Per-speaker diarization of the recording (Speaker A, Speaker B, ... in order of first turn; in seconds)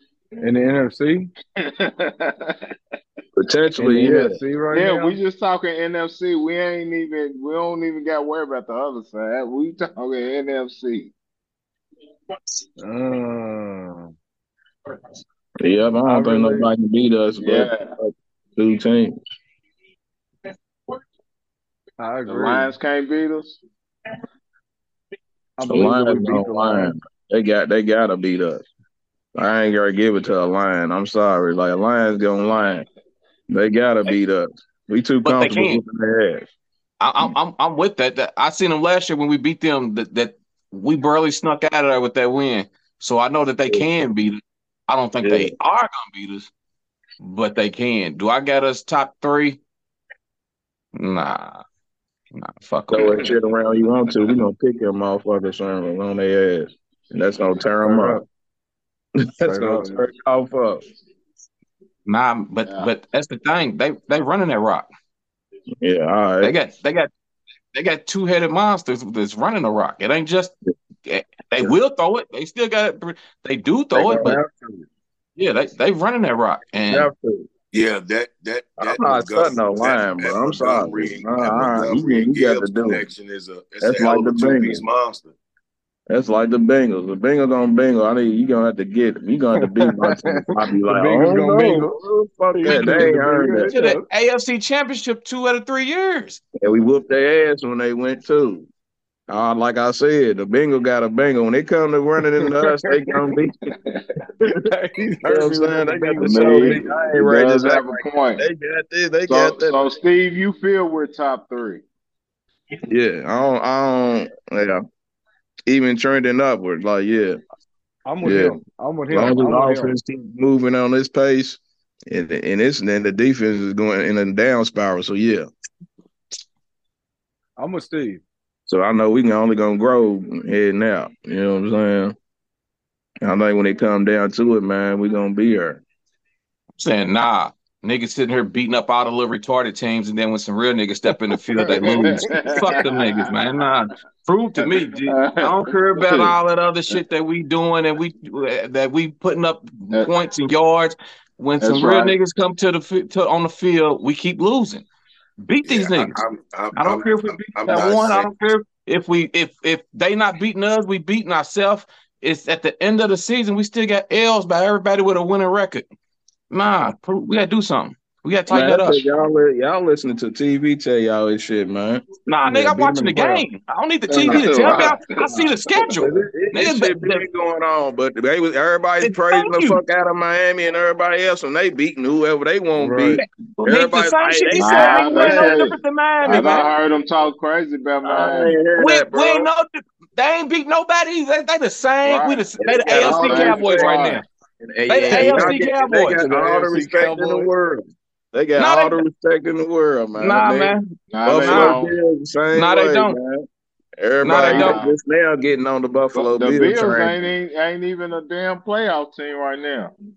Speaker A: 0.4-1.3, 3.8-5.2, 12.8-14.1, 16.0-16.7, 22.0-22.7, 25.6-26.9, 57.8-58.2, 59.4-60.0, 89.6-92.0, 92.5-94.1, 102.4-102.9, 104.5-106.9, 118.1-120.0, 127.6-128.2, 172.4-173.4, 182.7-183.2, 195.1-195.6, 196.2-197.5
Speaker B: 1.6-2.7, 4.7-11.1, 17.4-17.9, 22.3-23.6, 62.6-62.9, 103.7-104.0, 106.2-108.4, 109.2-111.8, 141.6-143.3, 145.1-146.3, 151.6-152.1, 174.1-175.5, 184.6-188.6, 192.0-194.2, 201.1-202.0, 204.2-205.0, 206.1-209.9
Speaker C: 3.4-4.4, 15.6-19.2, 25.7-28.7, 29.4-32.9, 33.5-36.5, 45.2-45.5, 52.9-58.2, 59.4-60.8, 65.8-66.5, 73.9-74.9, 76.9-77.5, 78.8-83.0, 83.8-84.8, 86.1-93.7, 96.6-98.7, 99.3-103.5, 105.2-109.9, 112.9-114.8, 115.7-117.4, 118.2-118.6, 119.1-125.5, 128.7-132.2, 133.2-135.8, 168.5-172.0, 174.2-174.9, 175.9-185.7, 186.2-186.6, 188.0-189.5, 192.6-194.0, 194.6-203.4, 204.0-207.2
Speaker D: 35.2-35.8, 37.0-46.5, 47.2-49.6, 50.9-51.6, 52.3-53.3, 62.0-64.8, 66.4-67.1, 67.7-70.5, 71.0-74.4, 75.4-77.1, 92.6-93.1, 93.7-96.4, 136.8-154.8, 155.4-156.2, 156.7-165.8, 166.5-169.0, 172.2-177.2, 179.0-179.8, 183.2-186.7, 188.8-194.2, 194.9-196.2, 198.6-199.0, 200.2-201.8, 202.5-203.2, 204.2-204.8
Speaker E: 77.7-85.3, 155.6-158.3